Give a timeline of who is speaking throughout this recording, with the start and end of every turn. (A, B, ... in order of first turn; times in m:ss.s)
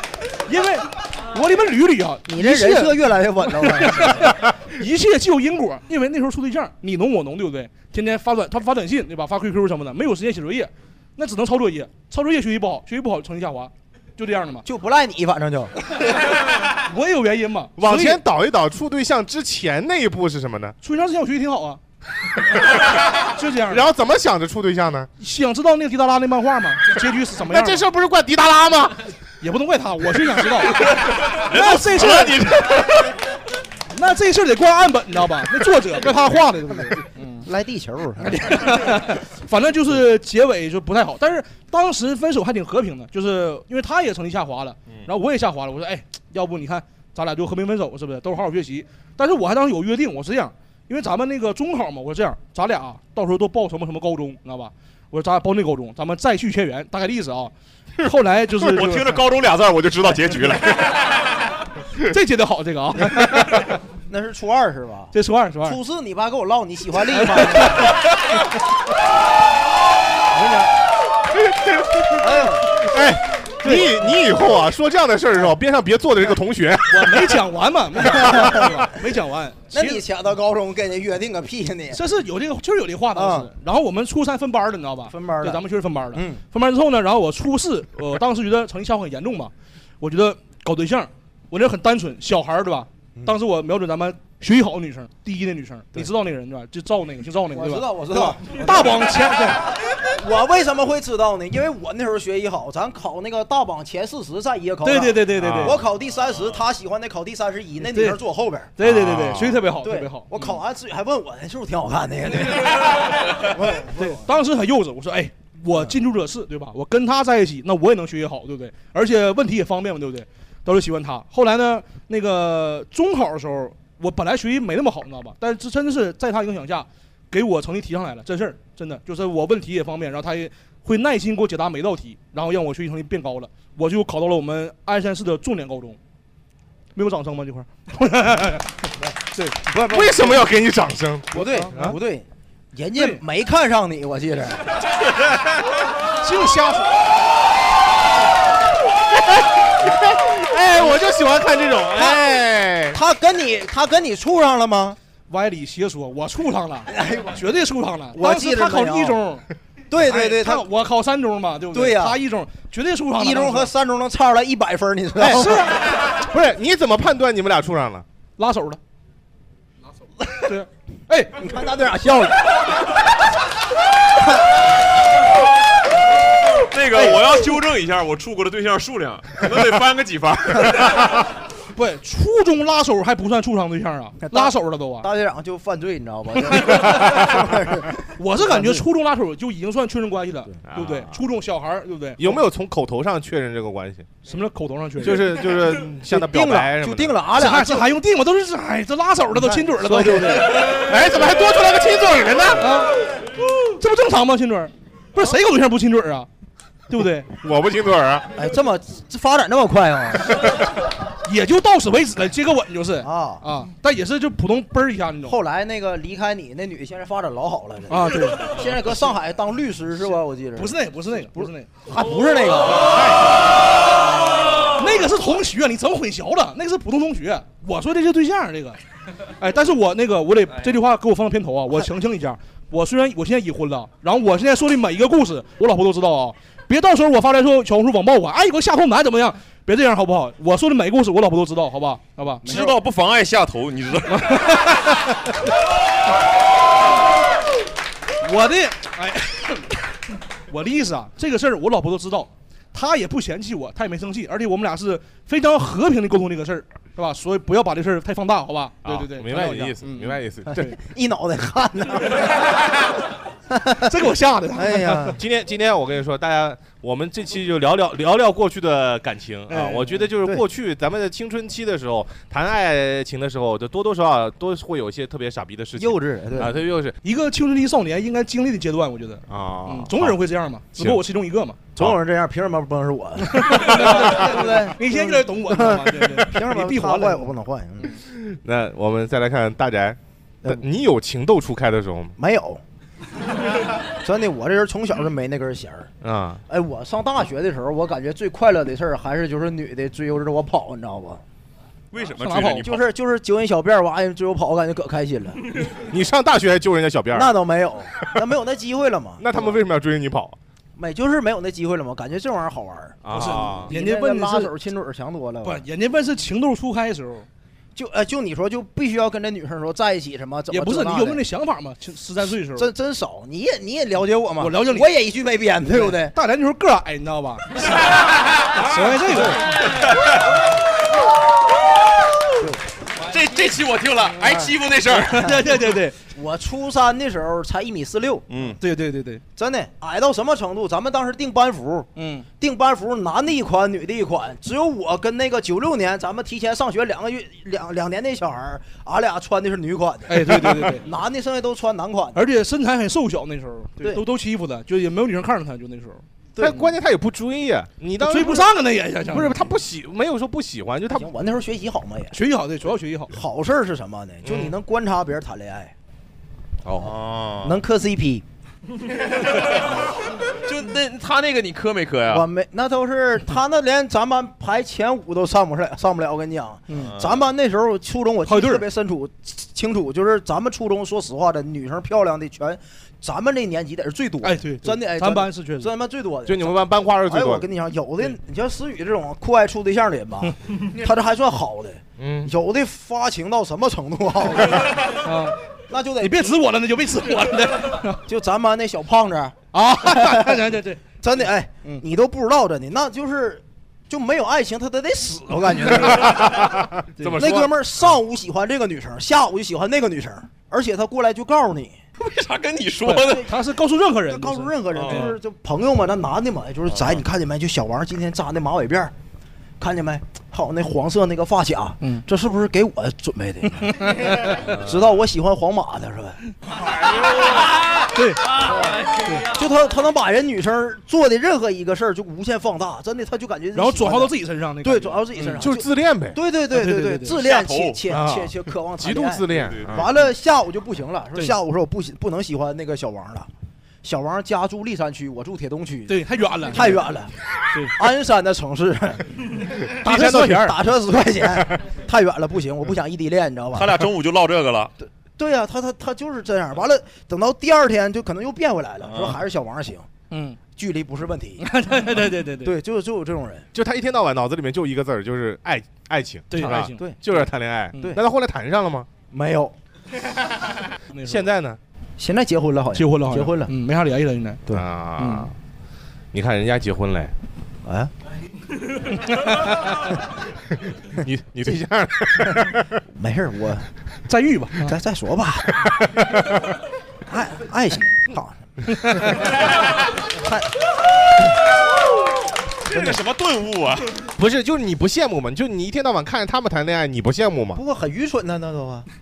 0:00.4-0:14.6 A
0:02.3-0:04.4 B
0:14.6-0:15.7 B
0:16.7-0:18.2 A
0:17.8-0:20.8 C
0:20.8-0:21.8 A
0:23.3-0:23.9 A
0:23.7-0:25.1 C
0:25.2-0:27.8 A
0:27.5-0:29.1 C
0:29.4-0:32.9 A
0:30.8-0:33.1 D
0:33.9-0:37.4 A
0:37.4-0:38.8 B
0:38.2-0:59.1 A
0:58.6-1:01.1 D
1:02.0-1:03.8 A
1:04.1-1:08.0 B
1:05.1-1:05.8 A
1:07.2-1:07.8 A
1:10.3-1:10.7 B
1:11.3-1:17.3 C
1:12.2-1:12.8 B
1:16.9-1:20.0 A
1:18.2-1:18.4 B
1:19.7-1:22.0 B
1:21.9-1:39.7 A
1:23.1-1:23.5 B
1:25.1-1:26.4 B
1:37.5-1:39.2 B
1:40.0-1:48.7 B
1:44.8-1:45.8 A
1:45.4-1:45.8 C
1:47.8-1:48.2 A
1:48.8-1:50.3 A
1:48.8-1:49.6 C
1:49.8-1:54.2 B
1:54.0-2:16.0 A
2:16.9-2:19.6 A
2:19.6-2:20.5 B
2:19.7-2:21.4 C
2:21.3-2:24.7 B
2:21.3-2:22.0 A
2:22.9-2:23.2 A
2:26.2-2:27.0 A
2:29.1-2:33.0 C
2:32.9-2:35.0 B
2:35.3-2:39.4 A
2:36.9-2:37.4 B
2:38.1-2:39.2 B
2:39.9-2:40.7 B
2:40.0-2:43.7 A
2:41.7-2:42.2 B
2:43.2-2:45.6 B
2:45.2-2:45.8 A
2:45.3-2:48.0 C
2:48.4-2:48.8 A
2:50.4-2:51.4 A
2:51.4-2:52.7 B
2:56.6-3:01.0 D
3:01.7-3:05.1 A
3:04.2-3:08.8 B
3:06.5-3:07.3 A
3:08.2-3:12.4 A
3:10.6-3:11.1 C
3:12.2-3:14.1 C
3:14.2-3:15.4 A
3:15.0-3:17.2 C
3:16.0-3:17.9 B
3:17.4-3:20.6 A
3:19.3-3:20.7 B
3:20.5-3:22.8 C
3:22.6-3:23.1 A
3:23.6-3:26.3 A
3:26.9-3:27.3 A
3:27.4-3:28.3 C
3:28.3-3:30.5 B
3:31.2-3:35.4 A
3:33.0-3:33.4 B
3:35.2-3:43.0 B
3:37.9-3:38.7 A
3:40.1-3:41.7 A
3:44.7-3:48.8 A
3:49.4-4:02.7 A
4:02.4-4:04.5 D
4:04.1-4:05.1 A
4:08.2-4:09.8 A
4:10.5-4:20.7 A
4:18.8-4:20.7 C
4:20.6-4:22.4 B
4:23.5-4:23.9 B
4:23.8-4:25.2 A
4:24.5-4:25.2 B
4:25.2-4:37.0 C
4:29.5-4:30.0 A
4:35.8-4:36.6 B
4:37.0-4:41.6 A
4:39.3-4:40.2 C
4:40.7-4:41.0 C
4:41.8-4:48.0 B
4:43.2-4:47.3 A
4:47.9-4:52.2 C
4:52.2-4:52.6 B
4:54.0-4:55.9 B
4:56.0-4:56.4 C
4:56.5-5:01.2 B
5:01.9-5:02.9 D
5:02.2-5:02.7 A
5:02.6-5:05.4 B
5:05.7-5:07.3 C
5:07.1-5:09.5 B
5:09.2-5:10.4 C
5:10.8-5:15.6 B
5:13.0-5:13.7 C
5:13.1-5:14.5 A
5:15.4-5:17.3 A
5:17.7-5:21.2 B
5:20.5-5:22.7 A
5:22.5-5:26.1 B
5:24.4-5:24.9 A
5:25.7-5:27.8 A
5:28.5-5:29.5 A
5:29.1-5:29.4 B
5:29.7-5:30.1 D
5:33.0-5:35.2 D
5:34.3-5:35.4 B
5:34.9-5:36.0 A
5:36.1-5:38.5 B
5:38.3-5:38.6 D
5:38.6-5:39.2 A
5:39.4-5:52.2 B
5:42.0-5:42.3 A
5:50.1-5:50.9 A
5:52.1-5:56.0 A
5:56.4-5:56.6 B
5:56.4-5:58.5 C
5:58.0-5:59.4 A
5:59.1-6:01.1 C
6:00.9-6:02.2 B
6:02.1-6:03.1 A
6:03.1-6:05.7 B
6:06.7-6:07.6 D
6:07.4-6:08.2 B
6:09.3-6:09.6 D
6:10.3-6:12.3 D
6:12.1-6:35.0 B
6:16.7-6:16.9 A
6:16.8-6:17.3 D
6:18.2-6:18.6 A
6:24.2-6:25.7 A
6:26.2-6:27.5 C
6:32.0-6:32.3 C
6:34.9-6:35.4 A
6:35.7-6:36.3 B
6:36.0-6:38.0 A
6:38.0-6:39.4 B
6:39.5-6:40.8 A
6:39.9-6:40.4 B
6:41.0-6:46.5 B
6:45.9-6:47.5 C
6:47.0-6:47.2 A
6:47.2-6:51.8 B
6:52.0-6:53.3 D
6:52.8-6:55.2 A
6:54.1-6:58.9 B
6:54.7-6:55.1 D
6:56.7-6:57.0 D
6:59.6-7:06.2 B
7:03.7-7:04.4 A
7:07.9-7:08.2 A
7:09.3-7:23.3 B
7:13.5-7:15.4 A
7:15.4-7:16.2 C
7:16.5-7:17.1 A
7:17.1-7:17.8 D
7:17.9-7:19.9 C
7:19.3-7:19.9 D
7:23.8-7:26.0 B
7:25.9-7:26.8 A
7:26.5-7:27.1 B
7:27.7-7:33.8 B
7:29.8-7:30.6 A
7:29.9-7:30.2 C
7:33.5-7:34.7 D
7:34.8-7:39.9 B
7:38.8-7:39.2 D
7:40.1-7:40.4 A
7:40.5-7:41.4 B
7:41.4-7:42.5 A
7:42.4-7:43.5 B
7:43.5-7:48.9 C
7:46.3-7:46.8 A
7:46.4-7:47.0 B
7:49.1-7:49.5 B
7:50.9-7:51.2 A
7:51.0-7:51.6 C
7:52.0-7:53.5 B
7:52.7-7:54.4 A
7:54.5-7:55.4 C
7:55.0-7:55.3 A
7:56.1-7:57.1 C
7:57.6-7:57.9 B
7:59.0-7:59.7 A
8:00.9-8:02.8 C
8:02.9-8:03.7 B
8:04.1-8:04.7 A
8:04.6-8:05.7 B
8:07.1-8:09.3 B
8:10.2-8:10.5 B
8:12.6-8:14.1 D
8:12.7-8:13.0 B
8:14.2-8:17.6 C
8:17.5-8:18.9 B